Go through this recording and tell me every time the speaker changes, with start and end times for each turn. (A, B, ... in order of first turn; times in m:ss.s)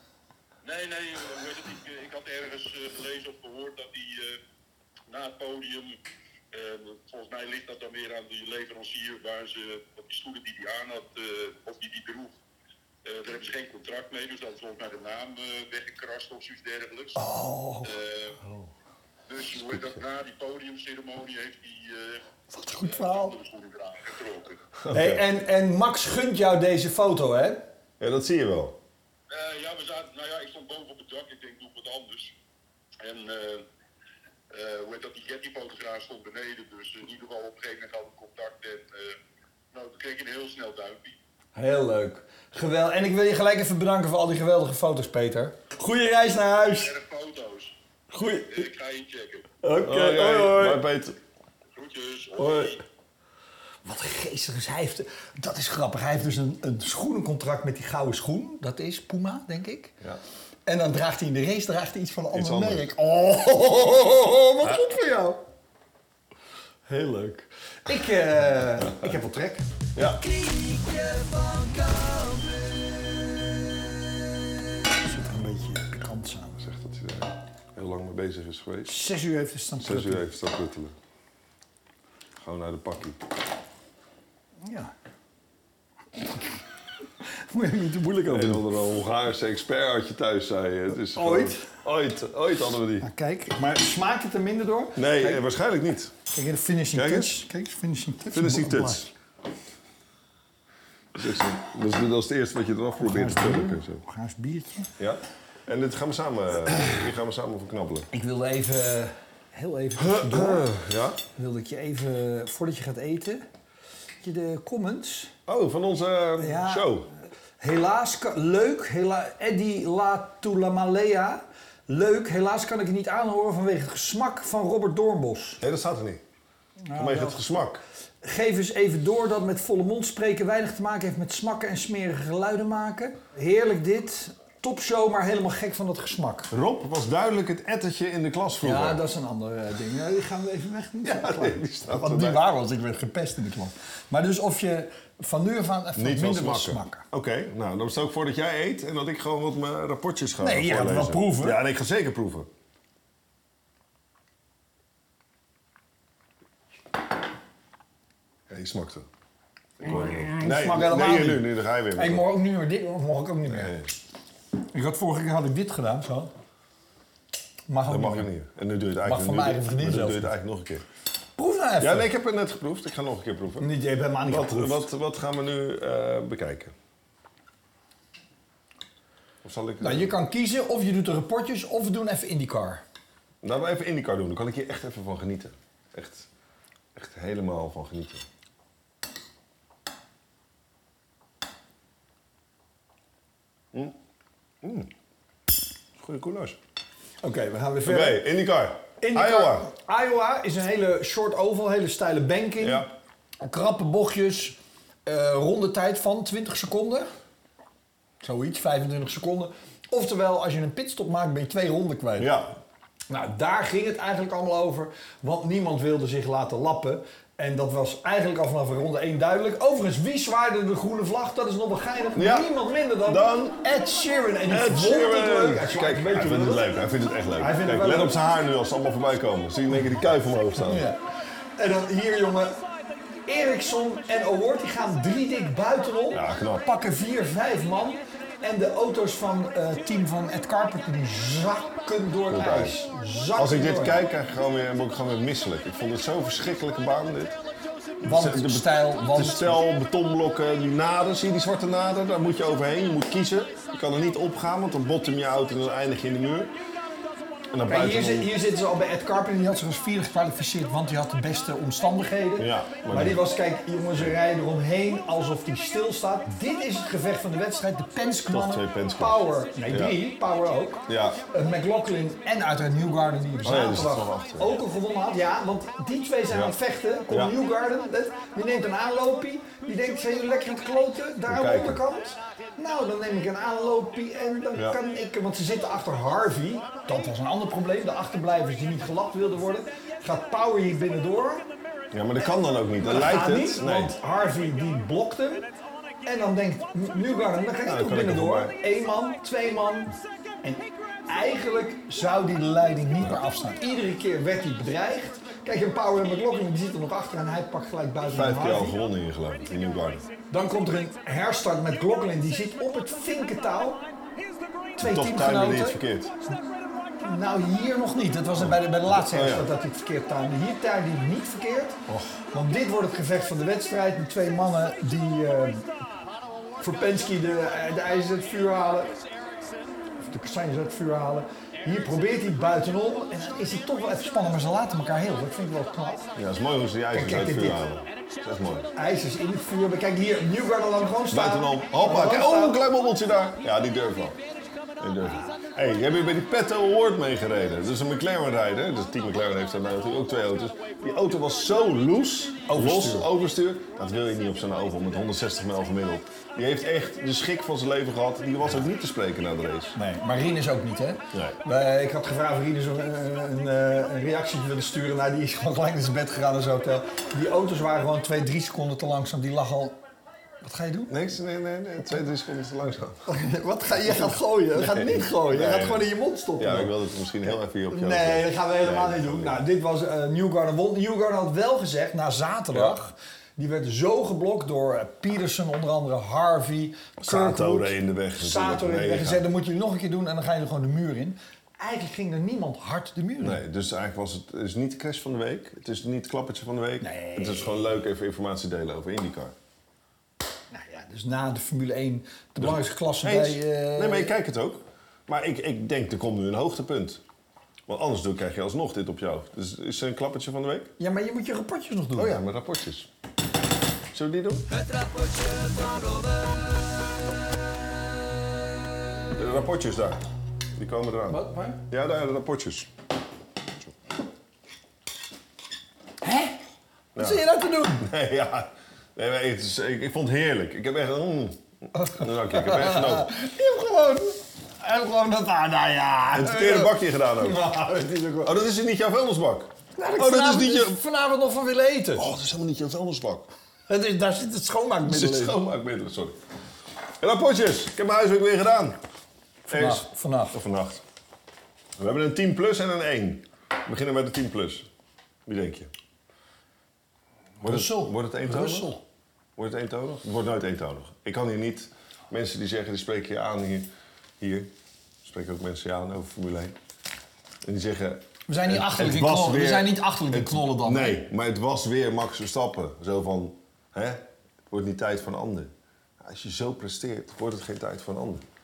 0:00.6-0:04.4 A
0:05.1-0:06.0 A
0:06.5-0:12.3 A
0:13.0-0:17.2 A
0:17.2-0:17.9 B
0:17.8-0:18.4 A
0:19.3-0:22.2 A
0:22.5-0:23.4 B
0:22.8-0:24.6 A
0:24.8-0:25.2 C
0:24.9-0:27.6 B
0:28.0-0:28.8 C
0:29.3-0:32.3 A
0:33.0-0:33.6 A
0:34.5-0:39.2 A
0:39.7-0:41.2 A
0:41.5-0:46.9 B
0:46.6-0:47.8 A
0:48.1-0:48.5 B
0:48.4-0:49.5 A
0:49.6-0:50.8 B
0:49.8-0:51.2 C
0:51.7-0:52.8 A
0:52.4-0:52.7 C
0:53.8-0:59.9 B
1:00.6-1:05.4 B
1:02.3-1:02.8 C
1:06.9-1:12.6 B
1:09.9-1:10.2 C
1:14.9-1:16.6 B
1:16.6-1:18.9 C
1:18.8-1:20.2 B
1:19.8-1:20.9 C
1:22.4-1:23.2 C
1:24.6-1:24.9 B
1:27.3-1:28.6 B
1:28.3-1:33.1 C
1:31.1-1:31.7 B
1:33.0-1:35.4 B
1:35.0-1:36.2 C
1:36.3-1:39.1 B
1:36.9-1:37.4 C
1:38.3-1:39.1 C
1:41.1-1:44.0 C
1:43.0-1:44.9 B
1:45.0-1:48.1 C
1:48.1-1:50.7 B
1:50.0-1:51.2 C
1:51.3-1:53.4 B
1:54.2-1:55.3 B
1:55.5-1:57.1 C
1:56.4-1:56.9 B
1:57.6-2:05.6 B
2:05.6-2:06.2 C
2:06.8-2:07.4 B
2:07.0-2:07.8 C
2:08.2-2:16.5 B
2:16.5-2:19.0 C
2:18.6-2:27.0 B
2:21.0-2:22.4 C
2:26.0-2:32.5 C
2:30.4-2:31.6 B
2:38.5-2:39.0 C
2:39.8-2:42.2 C
2:39.8-2:43.7 B
2:43.5-2:43.9 C
2:44.7-2:46.3 B
2:47.7-2:48.3 B
2:47.9-2:50.8 C
2:49.0-2:50.3 B
2:51.4-2:52.1 B
2:51.8-2:53.7 C
2:53.6-2:54.9 B
2:54.3-2:56.7 C
2:59.4-3:00.1 C
2:59.8-3:02.8 B
3:03.4-3:06.3 C
3:06.9-3:08.2 C
3:14.6-3:14.9 C
3:16.0-3:16.6 C
3:17.2-3:18.3 B
3:17.8-3:19.7 C
3:19.0-3:22.9 B
3:22.6-3:22.9 C
3:23.4-3:27.1 B
3:28.2-3:32.3 B
3:32.2-3:32.6 C
3:33.1-3:46.7 B
3:42.1-3:42.5 C
3:43.0-3:43.6 C
3:44.5-3:50.9 C
3:47.4-3:48.2 B
3:50.6-3:51.0 B
3:51.6-3:52.6 B
3:53.2-4:04.0 B
3:56.1-3:56.6 C
4:02.3-4:02.7 C
4:03.4-4:07.4 C
4:08.0-4:16.5 C
4:08.0-4:09.6 B
4:17.5-4:18.3 C
4:17.7-4:51.5 B
4:22.4-4:23.2 C
4:28.3-4:30.0 C
4:30.9-4:31.2 C
4:33.4-4:34.6 C
4:36.3-4:36.5 C
4:37.1-4:37.4 C
4:41.3-4:41.8 C
4:51.9-4:53.9 C
4:52.8-4:55.5 B
4:56.0-5:08.8 B
4:57.6-4:58.6 C
5:08.1-5:10.0 C
5:10.3-5:13.8 B
5:14.7-5:15.8 B
5:14.8-5:16.1 C
5:17.0-5:21.8 B
5:18.4-5:19.5 C
5:21.9-5:22.2 C
5:22.3-5:25.7 B
5:26.6-5:29.0 B
5:30.0-5:36.1 B
5:36.1-5:38.7 C
5:36.9-5:37.6 B
5:38.7-5:42.6 B
5:41.1-5:44.2 C
5:44.8-5:59.8 C
5:52.5-5:53.1 B
5:59.7-6:09.8 B
6:10.4-6:10.9 B
6:10.9-6:13.0 C
6:13.1-6:16.7 B
6:13.8-6:19.4 C
6:17.7-6:33.4 B
6:27.0-6:29.2 C
6:33.2-6:39.3 C
6:36.8-6:37.7 B
6:40.5-6:44.1 B
6:42.4-6:47.0 C
6:47.7-6:50.7 C
6:50.8-6:52.2 B
6:51.9-6:52.9 C
6:53.9-6:54.5 C
6:59.1-7:00.0 C
7:00.6-7:02.7 C
7:01.1-7:01.6 B
7:06.0-7:06.4 B
7:06.9-7:13.1 C
7:07.0-7:07.9 B
7:11.7-7:18.4 B
7:16.1-7:17.4 C
7:18.2-7:20.8 C
7:19.8-7:22.0 B
7:22.0-7:23.3 C
7:23.7-7:25.4 B
7:24.8-7:26.2 C
7:27.0-7:28.8 C
7:29.5-7:30.4 B
7:29.5-7:30.8 C
7:31.8-7:34.7 C
7:35.2-7:35.7 C
7:37.4-7:38.7 C
7:37.4-7:38.8 B
7:39.4-7:44.5 C
7:45.0-7:46.6 C
7:47.4-7:58.2 C
7:48.3-7:51.0 B